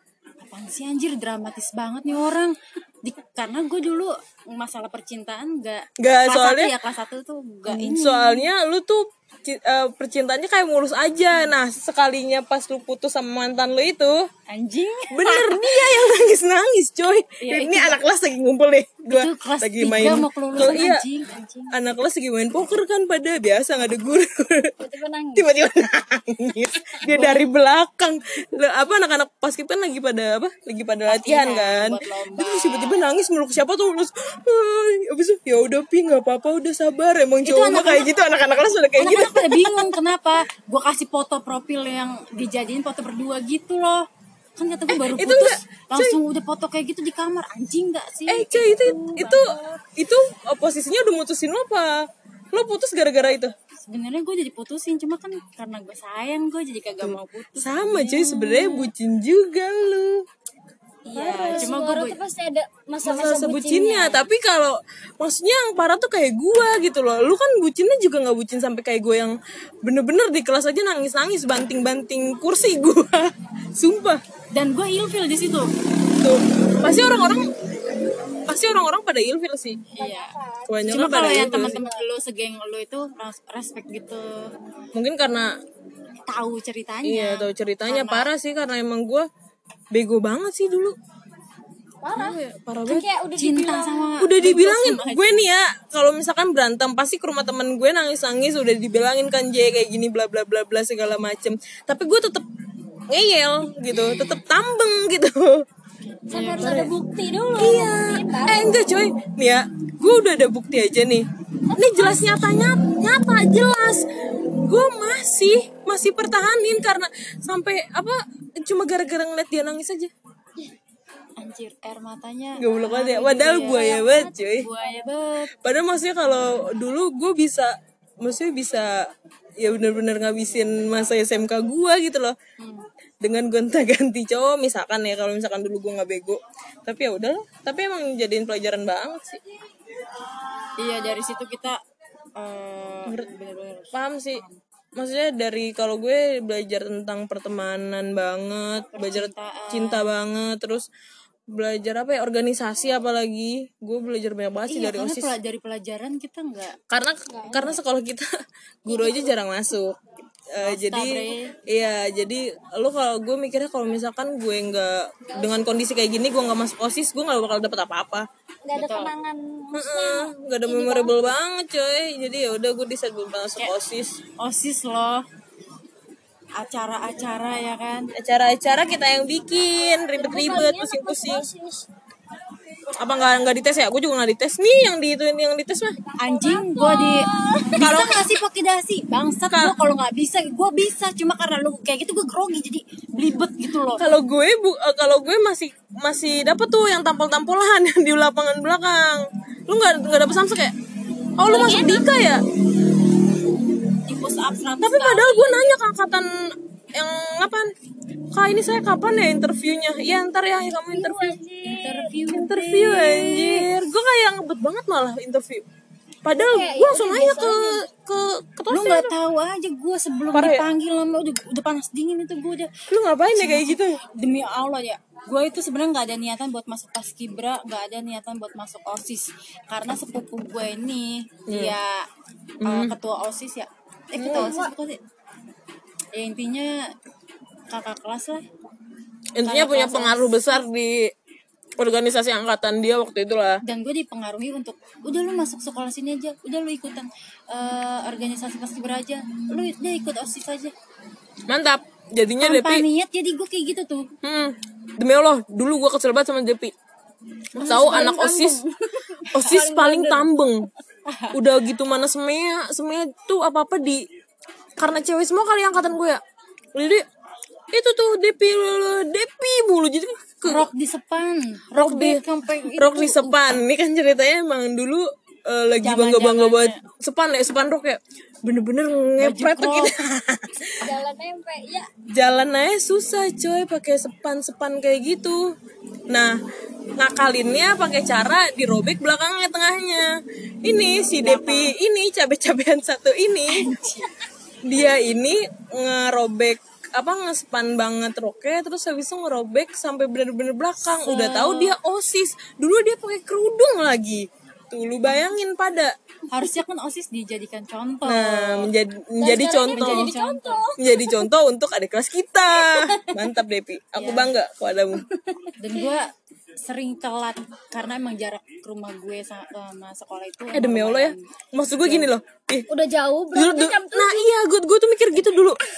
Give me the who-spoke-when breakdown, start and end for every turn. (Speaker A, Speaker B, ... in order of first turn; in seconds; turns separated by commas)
Speaker A: 0.4-8.5, Speaker B: 6.0-6.8, Speaker B: 7.7-14.2, Speaker A: 14.5-16.1, Speaker B: 15.1-21.1, Speaker A: 17.4-18.0, Speaker A: 19.1-21.7, Speaker B: 21.7-24.8, Speaker C: 24.8-25.5, Speaker B: 25.4-40.0, Speaker A: 27.1-27.5, Speaker A: 31.1-32.9, Speaker A: 37.5-38.1, Speaker A: 39.0-44.0, Speaker A: 44.6-49.5, Speaker B: 44.9-46.2, Speaker B: 48.3-53.5, Speaker A: 53.9-58.9, Speaker B: 57.0-60.2, Speaker A: 61.1-62.2, Speaker C: 61.1-64.3, Speaker B: 63.0-74.2, Speaker A: 74.5-75.7, Speaker B: 76.1-77.5, Speaker B: 78.5-79.9, Speaker C: 80.0-82.0, Speaker A: 80.0-80.3, Speaker B: 80.7-81.8, Speaker A: 80.9-84.5, Speaker B: 84.9-85.5, Speaker A: 86.3-88.3, Speaker B: 87.0-89.3, Speaker B: 89.9-91.0, Speaker C: 92.0-94.1, Speaker B: 92.1-93.1, Speaker A: 93.4-95.3, Speaker B: 94.2-102.5, Speaker B: 103.1-105.6, Speaker C: 106.3-108.8, Speaker A: 106.3-106.9, Speaker B: 106.6-106.9, Speaker B: 107.5-120.1, Speaker C: 111.7-112.5, Speaker A: 121.4-125.5, Speaker B: 122.6-124.7, Speaker C: 123.6-124.9, Speaker B: 125.6-129.0, Speaker B: 129.6-132.4, Speaker A: 132.6-132.9, Speaker B: 133.2-139.4, Speaker A: 140.8-141.8, Speaker A: 142.4-144.6, Speaker B: 143.9-144.4, Speaker B: 145.0-150.9, Speaker A: 148.9-150.1, Speaker B: 151.5-155.3, Speaker A: 154.7-156.8, Speaker B: 156.9-158.3, Speaker A: 157.5-157.8, Speaker B: 158.8-160.0, Speaker C: 158.9-159.4, Speaker B: 160.5-168.3, Speaker A: 160.6-161.5, Speaker C: 165.3-165.7, Speaker C: 168.7-171.3, Speaker A: 168.7-169.1, Speaker B: 169.7-174.2, Speaker A: 174.4-175.2, Speaker A: 176.6-178.1, Speaker B: 178.2-181.5, Speaker C: 180.2-181.9, Speaker B: 183.0-186.0, Speaker C: 186.1-188.0, Speaker A: 186.2-194.1, Speaker B: 187.8-188.3, Speaker B: 189.5-189.8, Speaker B: 194.0-200.8, Speaker B: 201.4-202.4, Speaker C: 201.4-202.1, Speaker A: 204.1-205.7, Speaker B: 204.8-207.7, Speaker B: 208.3-211.4, Speaker C: 210.9-212.2, Speaker A: 211.6-213.7, Speaker B: 212.3-215.7, Speaker B: 216.2-219.1, Speaker C: 216.4-217.9, Speaker A: 218.7-222.7, Speaker B: 220.3-220.7, Speaker B: 222.9-224.0, Speaker A: 223.3-232.1, Speaker B: 231.5-231.8, Speaker B: 232.6-232.9, Speaker A: 232.6-235.0, Speaker B: 234.2-234.6, Speaker C: 234.3-234.7, Speaker A: 236.2-236.8, Speaker A: 237.7-238.4, Speaker B: 239.4-241.1, Speaker A: 239.4-240.6, Speaker B: 241.8-243.6, Speaker A: 243.6-250.7, Speaker B: 251.5-252.8, Speaker A: 252.4-254.1, Speaker B: 254.2-256.7, Speaker B: 257.6-258.6, Speaker A: 257.6-258.1, Speaker C: 257.6-260.3, Speaker B: 259.3-260.7, Speaker A: 261.1-261.4, Speaker B: 261.3-264.0, Speaker B: 264.8-266.2, Speaker B: 266.7-267.1, Speaker B: 267.7-270.7, Speaker A: 270.4-273.4, Speaker B: 271.8-272.2, Speaker B: 272.8-280.9, Speaker A: 275.8-276.8, Speaker A: 279.2-279.9, Speaker C: 280.8-281.9, Speaker B: 282.1-285.5, Speaker B: 287.0-290.1, Speaker B: 290.6-293.7, Speaker A: 291.2-291.7, Speaker A: 293.5-294.2, Speaker B: 294.6-305.9, Speaker A: 300.9-301.8, Speaker A: 306.3-308.7, Speaker B: 308.1-310.1, Speaker C: 309.2-311.3, Speaker A: 309.7-310.6, Speaker B: 310.8-315.0, Speaker C: 312.5-313.2, Speaker A: 314.0-314.3, Speaker C: 315.3-315.9, Speaker A: 315.6-316.1, Speaker A: 316.6-321.3, Speaker B: 320.5-322.7, Speaker A: 321.8-322.1, Speaker C: 322.7-324.4, Speaker B: 323.3-325.6